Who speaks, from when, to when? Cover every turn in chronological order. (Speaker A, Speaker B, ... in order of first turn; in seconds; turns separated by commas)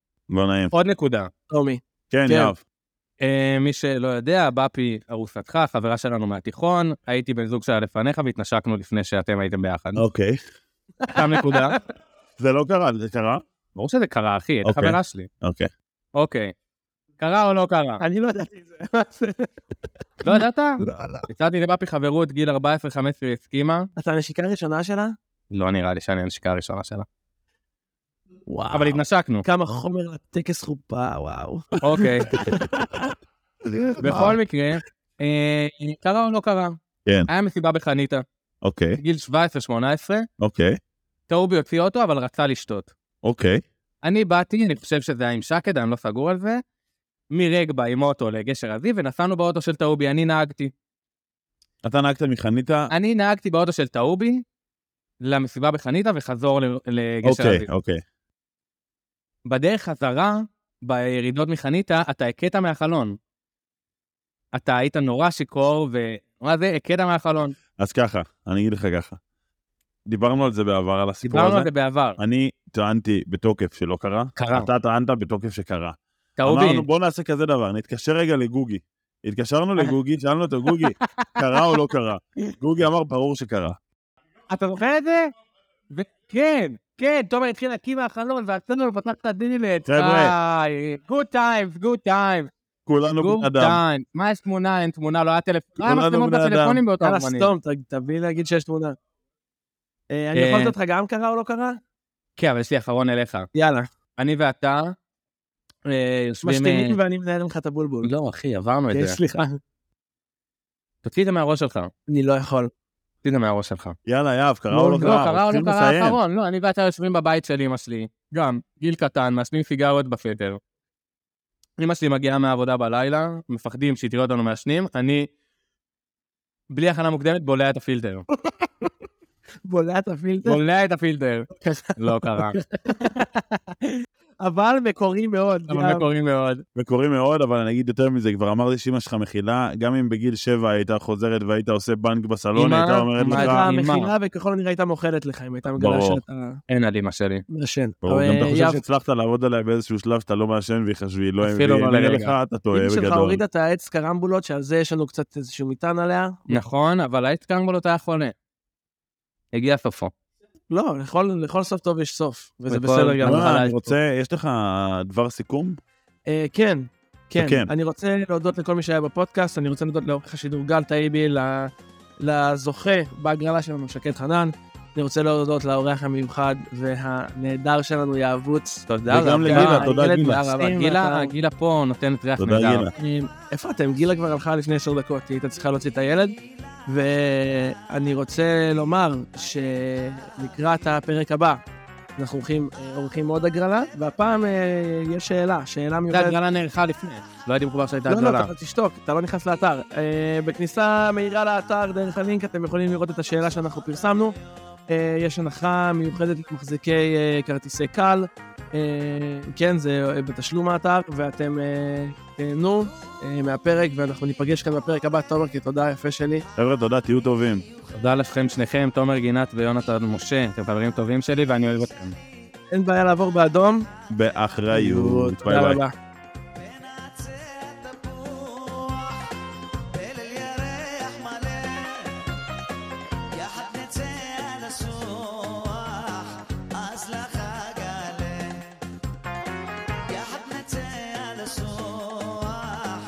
Speaker A: 0.3-0.7, Speaker B: 0.7-1.3, Speaker C: 1.5-2.5, Speaker A: 2.1-2.6, Speaker B: 3.2-10.0, Speaker A: 9.9-10.4, Speaker C: 11.0-11.8, Speaker B: 11.1-11.8, Speaker A: 12.4-13.4, Speaker B: 13.8-15.3, Speaker A: 14.6-15.7, Speaker B: 16.1-16.5, Speaker B: 17.2-18.0, Speaker C: 18.0-19.5, Speaker C: 20.2-21.3, Speaker B: 20.2-23.9, Speaker C: 24.0-25.1, Speaker B: 25.5-27.1, Speaker C: 28.5-33.1, Speaker B: 28.7-29.4, Speaker B: 31.8-32.3, Speaker C: 33.7-34.3, Speaker B: 34.0-36.8, Speaker B: 37.3-38.2, Speaker A: 38.6-39.0, Speaker B: 39.0-40.3, Speaker A: 40.4-40.8, Speaker B: 41.3-42.9, Speaker A: 43.2-43.6, Speaker B: 44.0-46.6, Speaker B: 47.3-50.7, Speaker A: 51.8-52.9, Speaker B: 52.9-54.4, Speaker B: 55.2-57.7, Speaker A: 57.2-58.0, Speaker B: 59.5-63.1, Speaker B: 64.5-67.5, Speaker A: 67.8-69.2, Speaker A: 70.1-83.8, Speaker B: 71.2-72.2, Speaker B: 74.3-74.7, Speaker B: 76.4-76.8, Speaker B: 81.0-81.4, Speaker B: 84.5-85.3, Speaker B: 85.9-92.5, Speaker A: 89.8-90.3, Speaker A: 92.8-93.8, Speaker B: 93.1-97.5, Speaker A: 95.8-96.8, Speaker C: 97.0-99.0, Speaker C: 100.1-101.8, Speaker B: 100.3-100.7, Speaker B: 102.4-103.5, Speaker C: 103.5-103.9, Speaker B: 104.2-104.9, Speaker B: 105.9-107.0, Speaker C: 106.4-108.1, Speaker B: 108.0-109.2, Speaker C: 108.9-109.6, Speaker B: 111.0-111.9, Speaker C: 112.1-112.7, Speaker B: 113.2-114.0, Speaker A: 114.0-116.2, Speaker C: 114.7-115.2, Speaker B: 115.0-120.6, Speaker B: 121.8-125.3, Speaker B: 126.7-128.2, Speaker C: 128.6-128.9, Speaker C: 129.6-130.6, Speaker B: 130.4-132.6, Speaker C: 131.6-131.9, Speaker C: 132.5-136.1, Speaker B: 135.7-136.6, Speaker A: 136.7-143.7, Speaker B: 142.5-144.1, Speaker C: 143.3-146.6, Speaker A: 145.8-146.2, Speaker B: 146.7-147.4, Speaker C: 147.5-148.8, Speaker A: 148.0-153.4, Speaker B: 151.4-152.3, Speaker C: 152.7-156.6, Speaker B: 156.5-158.3, Speaker B: 159.5-160.1, Speaker C: 160.7-163.7, Speaker B: 162.7-163.9, Speaker A: 163.2-165.8, Speaker C: 166.3-171.7, Speaker A: 167.4-167.7, Speaker C: 172.2-181.3, Speaker B: 178.9-182.9, Speaker A: 179.1-180.4, Speaker A: 182.4-182.9, Speaker C: 182.9-191.6, Speaker C: 192.2-196.4, Speaker B: 196.1-198.5, Speaker C: 198.1-204.3, Speaker C: 204.9-216.4, Speaker A: 216.6-217.7, Speaker B: 217.9-222.2, Speaker C: 222.7-223.9, Speaker A: 224.1-225.8, Speaker C: 224.7-225.9, Speaker A: 228.3-228.9, Speaker A: 230.4-231.9, Speaker A: 233.6-238.3, Speaker A: 240.1-242.6